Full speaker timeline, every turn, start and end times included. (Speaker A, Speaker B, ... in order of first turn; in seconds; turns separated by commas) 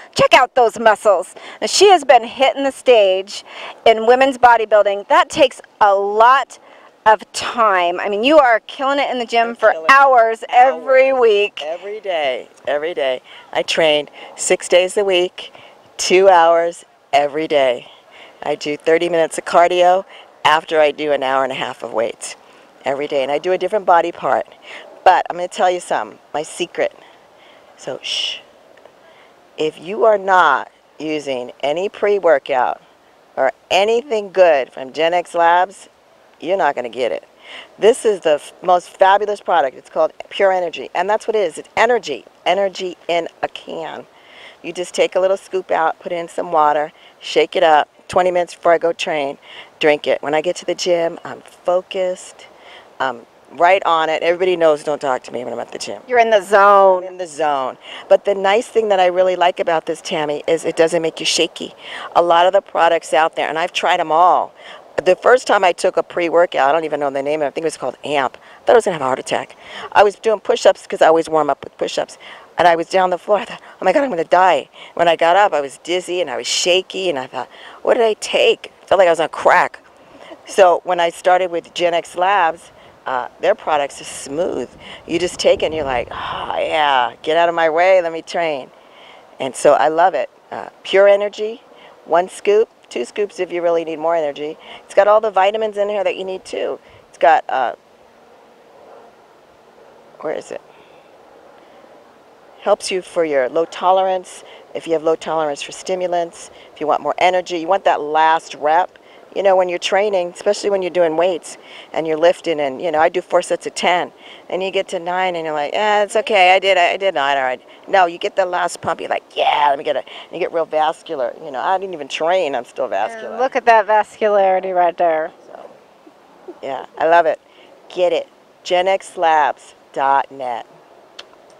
Speaker A: 0.1-11.7, Speaker B: 9.4-17.9, Speaker B: 18.4-24.5, Speaker B: 25.0-27.0, Speaker B: 27.8-28.4, Speaker B: 29.6-32.8, Speaker B: 33.4-35.9, Speaker B: 36.4-37.3, Speaker B: 37.8-44.1, Speaker B: 44.6-52.5, Speaker B: 53.0-56.1, Speaker A: 56.1-57.1, Speaker B: 57.0-79.8, Speaker B: 80.5-88.7, Speaker B: 89.4-97.8, Speaker B: 100.2-100.6, Speaker B: 102.6-123.5, Speaker A: 123.0-125.3, Speaker B: 125.4-125.7, Speaker B: 126.6-130.7